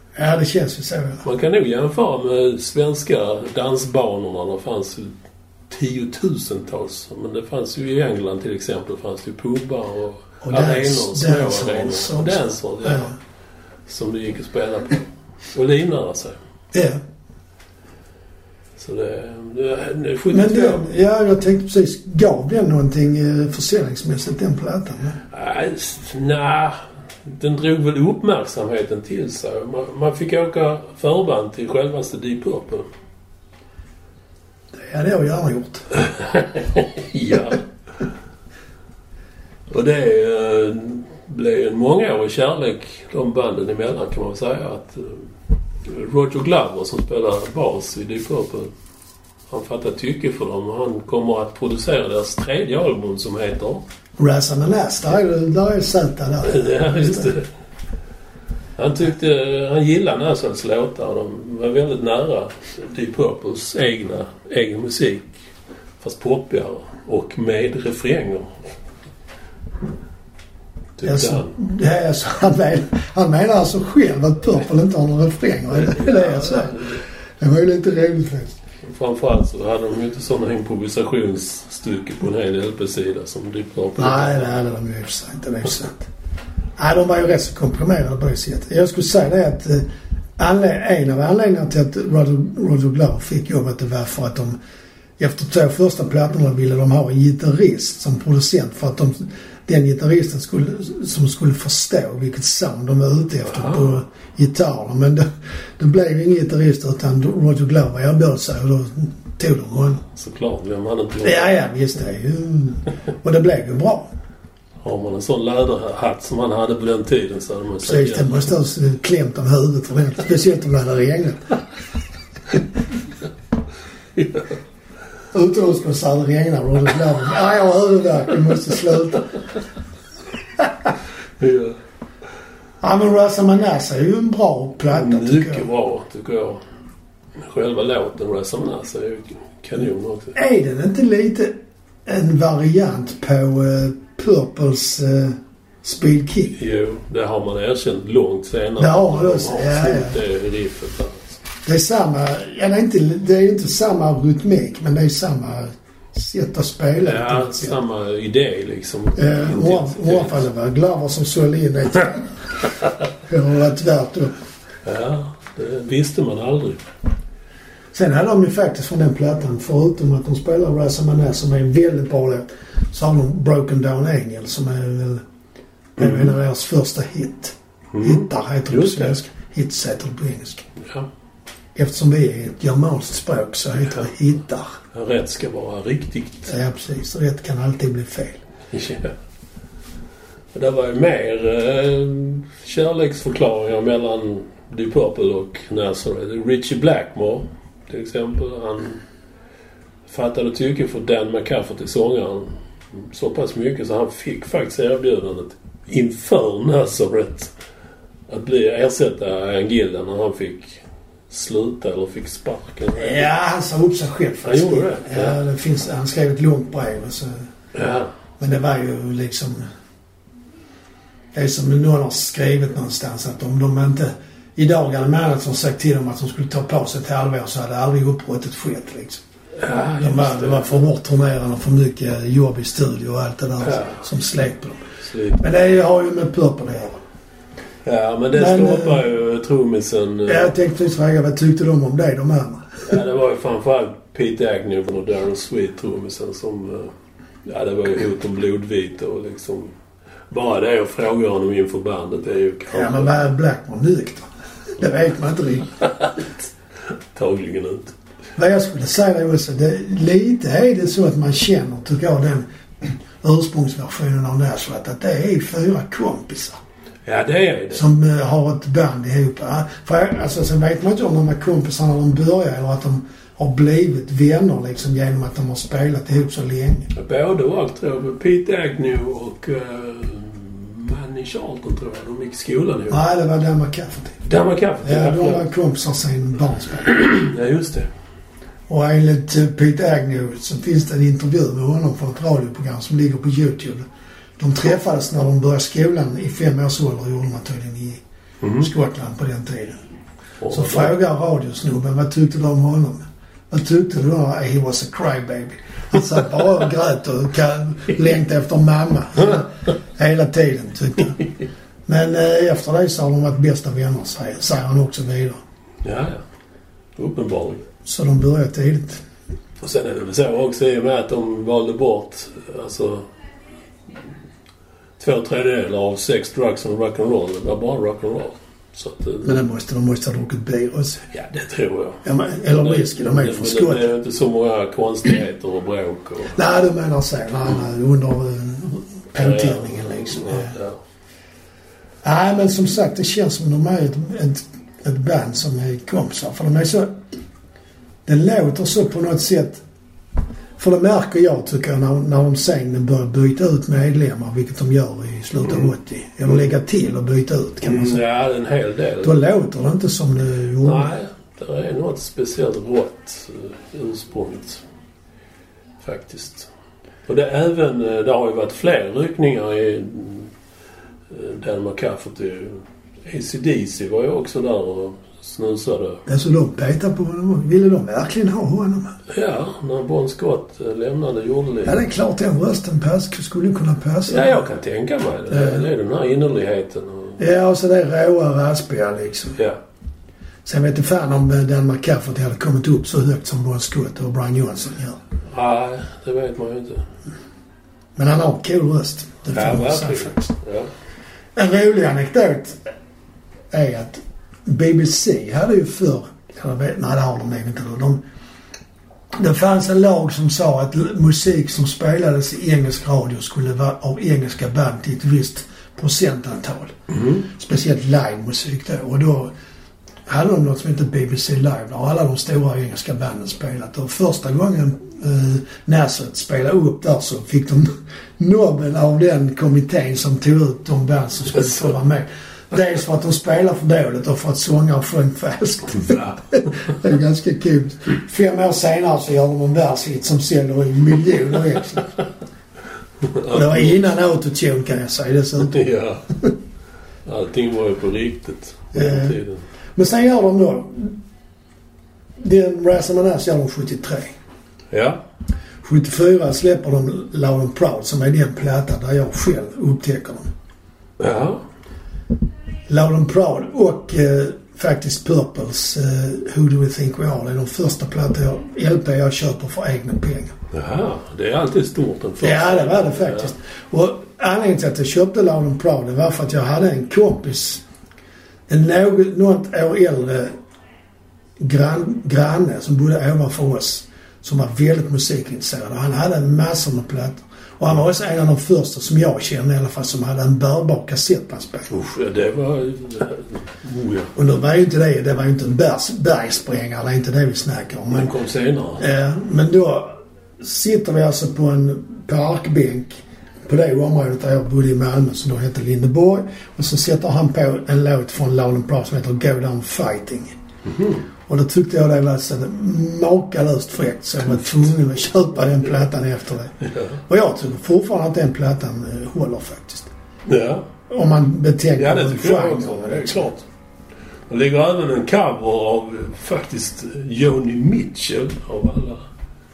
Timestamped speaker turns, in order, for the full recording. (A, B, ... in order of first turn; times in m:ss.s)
0:00.2-0:01.2 A
0:01.2-0:05.1 B
0:05.7-0:13.2 B
0:10.4-0:13.1 A
0:13.9-0:16.4 B
0:16.7-0:17.0 A
0:18.8-0:20.8 B
0:20.3-0:25.2 A
0:25.3-0:32.8 B
0:34.7-0:35.9 A
0:36.1-0:37.6 B
0:39.7-0:45.3 B
0:45.8-0:48.7 B
0:49.5-0:53.8 B
0:54.2-0:57.3 A
0:56.4-0:57.5 B
0:58.8-1:05.4 B
1:06.0-1:08.7 B
1:11.0-1:11.6 B
1:11.0-1:16.9 A
1:15.7-1:17.0 B
1:17.4-1:18.6 A
1:18.8-1:24.6 B
1:24.0-1:26.1 A
1:26.8-1:29.8 A
1:30.4-1:34.6 A
1:35.2-1:45.3 A
1:43.5-1:43.9 B
1:45.8-1:50.0 A
1:50.1-1:51.5 B
1:51.2-1:54.1 A
1:54.8-1:58.4 B
1:57.8-2:01.5 A
2:04.2-2:04.5 B
2:05.3-2:09.3 A
2:11.4-2:11.8 B
2:12.8-2:15.6 A
2:14.9-2:16.6 B
2:17.4-2:20.4 B
2:20.4-2:26.6 A
2:26.6-2:31.4 B
2:28.8-2:30.2 A
2:31.6-2:37.8 A
2:37.0-2:40.4 B
2:39.2-2:42.4 A
2:43.3-2:44.4 A
2:44.8-2:46.8 B
2:47.9-2:55.2 A
2:56.0-3:00.7 A
2:57.9-2:59.1 B
3:00.8-3:01.1 B
3:01.8-3:04.8 A
3:04.9-3:06.5 B
3:06.5-3:08.4 A
3:08.7-3:09.1 B
3:10.5-3:19.0 B
3:20.1-3:27.5 B
3:28.3-3:33.3 B
3:33.0-3:37.4 A
3:34.4-3:35.4 B
3:37.7-3:38.1 B
3:38.4-3:39.6 A
3:41.3-3:49.2 A
3:49.6-3:50.7 B
3:50.0-3:54.8 A
3:53.6-3:54.0 B
3:55.0-3:55.4 B
3:55.4-3:57.0 A
3:57.8-4:00.6 B
3:58.3-3:59.0 A
4:00.3-4:02.8 A
4:02.9-4:06.9 B
4:07.4-4:09.7 B
4:10.3-4:13.1 B
4:12.7-4:14.3 A
4:14.8-4:15.7 A
4:15.9-4:16.3 B
4:17.1-4:18.0 B
4:18.4-4:26.6 A
4:27.1-4:27.8 B
4:27.7-4:36.9 A
4:36.9-4:43.0 B
4:42.9-4:44.2 A
4:44.2-4:45.5 B
4:44.8-4:47.0 A
4:46.9-4:47.9 B
4:48.7-4:53.9 A
4:54.4-4:58.0 A
4:58.4-4:58.7 B
4:58.6-4:59.8 A
5:00.4-5:00.9 B
5:00.5-5:11.2 A
5:11.9-5:15.4 A
5:15.8-5:16.2 B
5:17.0-5:17.7 B
5:17.8-5:19.0 A
5:19.6-5:23.1 B
5:25.0-5:29.3 B
5:29.2-5:31.0 A
5:31.1-5:32.0 B
5:32.0-5:33.9 A
5:32.6-5:36.4 B
5:36.4-5:40.5 A
5:39.2-5:40.8 B
5:42.0-5:47.0 A
5:48.1-5:49.6 A
5:50.6-5:58.0 A
5:57.6-5:59.2 B
5:59.0-6:00.9 A
6:00.6-6:04.6 B
6:05.8-6:06.5 B
6:07.1-6:10.3 B
6:11.1-6:16.0 B
6:16.1-6:19.0 A
6:19.1-6:21.8 B
6:21.6-6:24.4 A
6:24.1-6:27.2 B
6:25.3-6:25.6 A
6:27.2-6:29.4 A
6:30.4-6:35.0 A
6:35.3-6:36.9 B
6:38.0-6:40.3 A
6:39.3-6:40.7 B
6:41.4-6:42.6 A
6:43.5-6:48.0 A
6:49.2-6:59.3 A
6:56.9-6:57.2 B
7:00.1-7:22.0 A
7:15.8-7:16.2 B
7:23.0-7:23.8 B
7:23.3-7:25.6 A
7:25.4-7:26.1 B
7:27.1-7:29.4 B
7:28.7-7:29.2 A
7:29.8-7:31.0 A
7:32.2-7:34.2 A
7:34.7-7:35.0 B
7:35.6-7:40.3 A
7:41.0-7:41.4 B
7:42.7-7:50.3 A
7:50.5-7:53.3 B
7:52.2-7:57.6 A
7:58.5-8:00.3 A
8:01.4-8:11.7 A
8:11.7-8:14.1 B
8:14.2-8:18.1 A
8:17.9-8:18.8 B
8:18.8-8:30.3 A
8:30.7-8:31.0 B
8:31.3-8:36.5 A
8:36.6-8:37.0 B
8:37.1-8:39.9 A
8:40.3-8:40.7 B
8:40.9-8:43.3 A
8:41.8-8:43.4 B
8:44.3-8:49.1 B